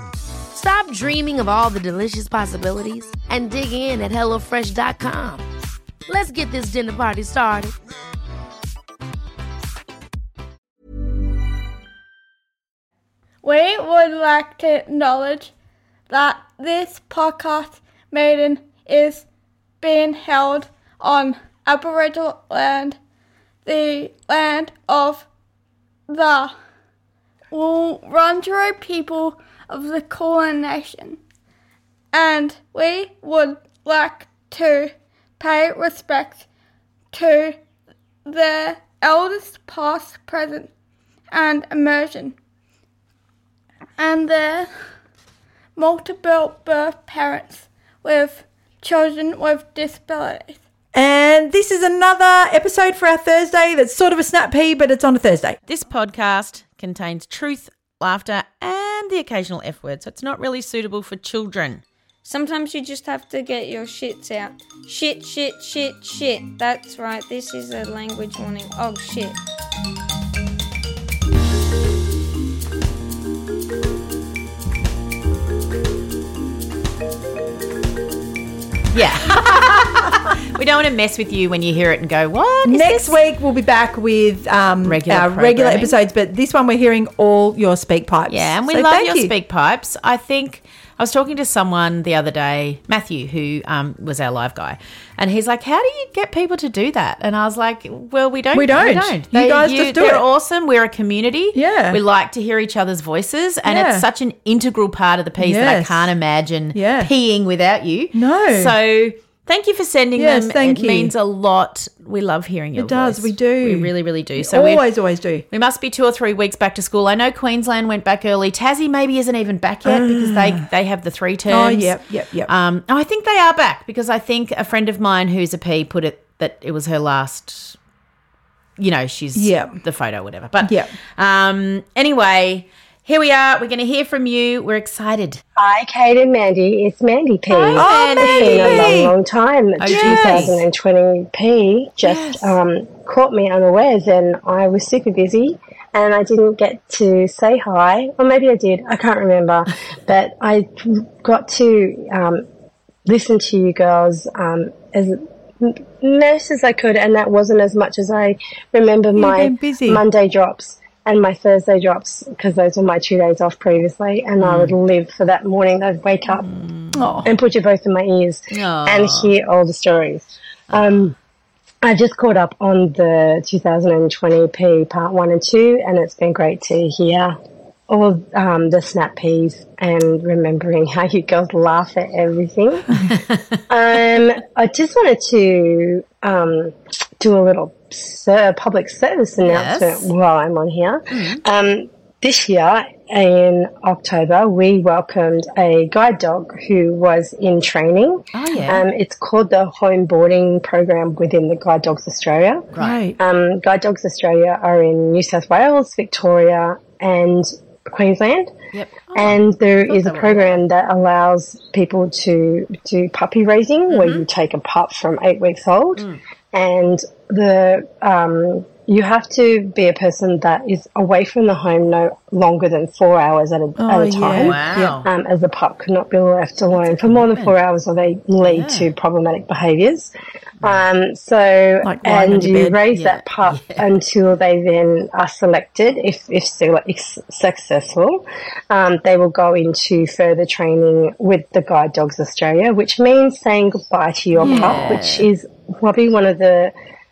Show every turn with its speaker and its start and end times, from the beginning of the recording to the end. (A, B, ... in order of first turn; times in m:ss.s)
0:00.5-0:05.5 A
0:06.1-0:07.8 A
0:13.4-0:15.5 B
0:16.1-0:19.2 B
0:19.8-0:23.0 B
0:23.6-0:25.3 B
0:26.1-0:26.6 B
0:27.5-0:31.2 B
0:32.1-0:36.4 B
0:37.1-0:37.6 B
0:38.3-0:40.7 B
0:41.3-0:42.4 B
0:44.0-0:44.7 B
0:45.8-0:50.6 B
0:50.9-0:55.6 C
0:55.7-1:01.8 D
1:02.2-1:09.4 E
1:18.9-1:23.2 D
1:22.6-1:29.3 C
1:24.8-1:26.0 D
1:28.3-1:54.9 D
1:38.5-1:40.2 C
1:41.5-1:42.0 C
1:43.7-1:44.1 C
1:45.4-1:46.1 C
1:46.7-1:47.1 C
1:48.1-1:48.8 C
1:50.2-1:51.1 C
1:52.8-1:55.4 C
1:55.5-2:07.8 D
1:59.9-2:00.7 C
2:01.5-2:02.5 C
2:08.8-2:15.4 D
2:09.4-2:09.8 C
2:10.6-2:10.9 C
2:15.6-2:32.5 F
2:17.5-2:19.0 D
2:17.7-2:19.1 C
2:19.8-2:20.6 D
2:19.8-2:20.5 C
2:22.0-2:22.6 C
2:33.0-2:46.5 F
2:39.2-2:40.0 C
2:44.4-2:44.8 D
2:46.3-2:47.2 D
2:46.9-2:47.3 C
2:47.2-2:51.1 F
2:48.5-2:49.3 D
2:50.7-2:51.1 D
2:51.8-2:57.4 F
2:57.9-3:02.9 F
3:03.0-3:03.6 D
3:03.7-3:28.5 F
3:09.4-3:10.1 D
3:11.1-3:11.4 D
3:18.3-3:18.8 D
3:22.7-3:23.0 D
3:22.8-3:23.2 C
3:28.7-3:30.6 D
3:29.2-3:50.1 F
3:33.9-3:34.2 D
3:43.8-3:45.0 C
3:44.3-3:45.0 D
3:46.7-3:47.5 D
3:48.4-3:48.9 D
3:50.6-4:06.8 F
3:51.8-3:52.8 C
3:52.9-3:53.9 D
4:04.4-4:05.3 D
4:04.4-4:05.0 C